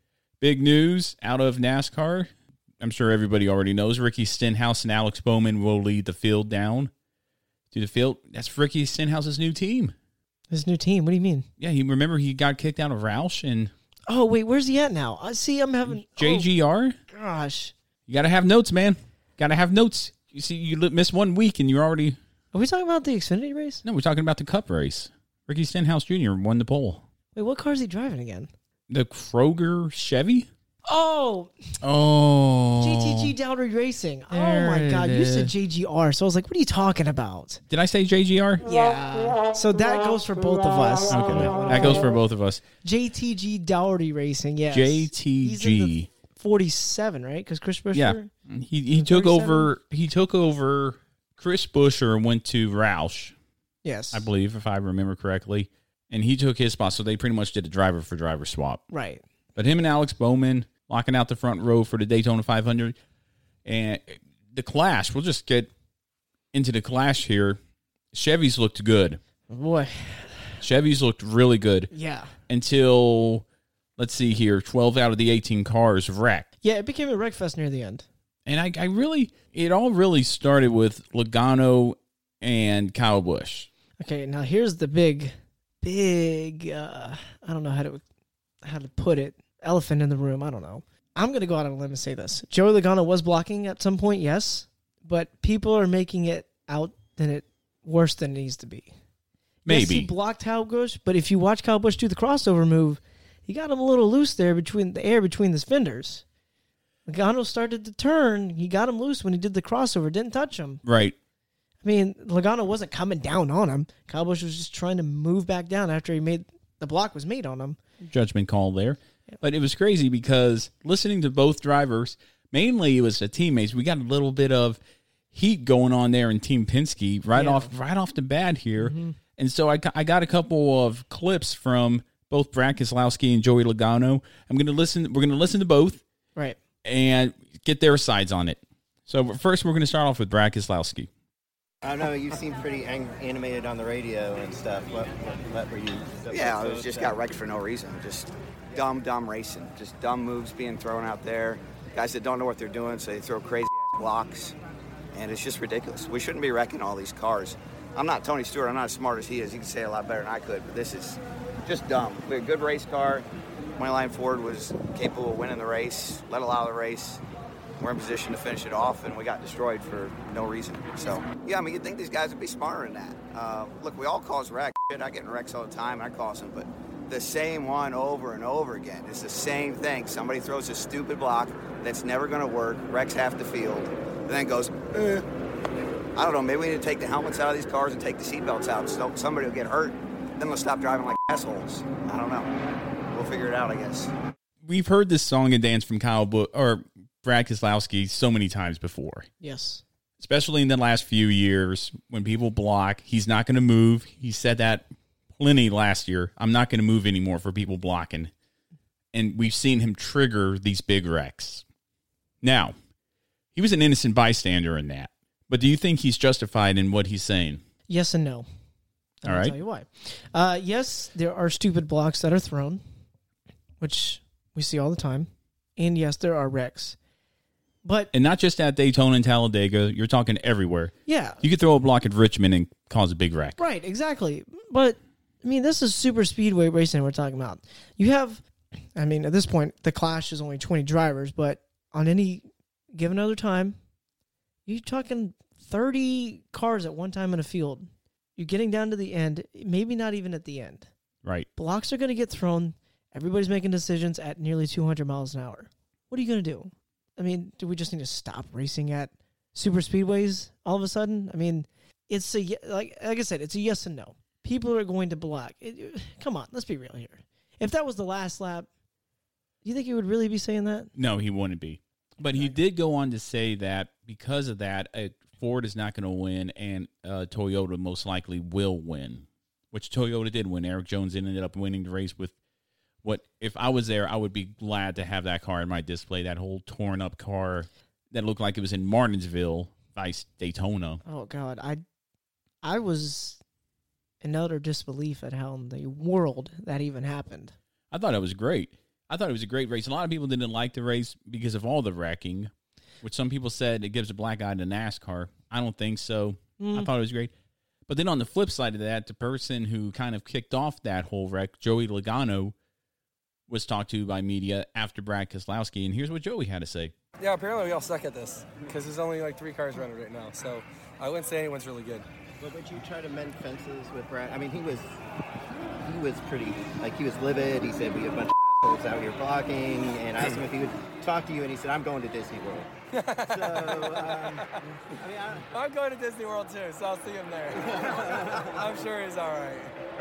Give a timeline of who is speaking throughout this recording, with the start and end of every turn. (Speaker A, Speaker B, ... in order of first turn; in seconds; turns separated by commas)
Speaker A: 0.4-6.9, Speaker A: 7.7-9.9, Speaker B: 10.5-11.5, Speaker A: 11.6-13.7, Speaker B: 14.1-16.5, Speaker A: 15.9-17.0, Speaker B: 17.1-17.7, Speaker A: 18.1-22.2, Speaker B: 22.5-23.8, Speaker A: 23.8-27.0, Speaker B: 27.4-28.5, Speaker A: 28.9-30.5, Speaker B: 30.9-31.5, Speaker A: 31.8-33.3, Speaker B: 32.8-37.6, Speaker A: 34.3-35.5, Speaker A: 37.7-38.6, Speaker B: 38.6-42.1, Speaker A: 41.1-42.6, Speaker B: 42.8-48.3, Speaker A: 44.7-46.1, Speaker A: 47.9-53.4, Speaker B: 48.9-49.7, Speaker B: 53.8-54.3, Speaker A: 54.1-58.8, Speaker B: 58.9-59.2, Speaker A: 59.5-63.0, Speaker A: 63.6-65.7, Speaker A: 66.5-67.6, Speaker A: 68.1-69.2, Speaker B: 69.5-70.4, Speaker A: 70.6-71.9, Speaker B: 71.9-72.3, Speaker A: 72.5-73.5, Speaker A: 74.0-76.5, Speaker B: 76.6-78.1, Speaker A: 78.5-83.7, Speaker B: 84.0-88.0, Speaker B: 88.6-98.9, Speaker A: 99.7-100.1, Speaker B: 99.7-106.2, Speaker B: 107.1-110.8, Speaker A: 110.8-111.2, Speaker B: 111.8-117.8, Speaker A: 118.0-124.8, Speaker A: 125.3-136.0, Speaker B: 127.3-127.7, Speaker B: 128.8-129.2, Speaker A: 136.8-141.1, Speaker C: 141.8-147.2, Speaker D: 146.3-154.6, Speaker D: 155.1-163.3, Speaker D: 163.8-167.2, Speaker D: 167.8-185.3, Speaker D: 186.2-192.5, Speaker D: 193.1-194.1, Speaker A: 194.6-199.3, Speaker B: 199.4-199.8, Speaker A: 200.2-204.9, Speaker A: 205.4-208.3, Speaker A: 209.1-211.6, Speaker A: 212.4-212.8, Speaker A: 213.5-217.6, Speaker B: 217.9-218.5, Speaker B: 219.2-222.8, Speaker A: 219.2-219.6, Speaker B: 223.8-227.0, Speaker B: 227.8-228.1, Speaker A: 228.1-233.6, Speaker B: 231.1-231.4, Speaker B: 233.6-238.4, Speaker B: 239.0-243.8, Speaker B: 244.7-250.9, Speaker B: 251.6-268.7, Speaker B: 269.6-270.9, Speaker A: 270.9-282.4, Speaker A: 283.0-291.0, Speaker B: 291.1-291.8, Speaker B: 292.6-293.4, Speaker B: 294.2-297.6, Speaker A: 297.9-302.5, Speaker A: 303.0-307.3, Speaker B: 306.6-306.9, Speaker A: 307.9-312.6, Speaker A: 313.5-316.9, Speaker E: 317.2-322.1, Speaker C: 322.4-325.0, Speaker C: 325.8-332.7, Speaker E: 332.9-334.5, Speaker C: 333.3-335.4, Speaker E: 335.5-339.8, Speaker C: 337.6-338.5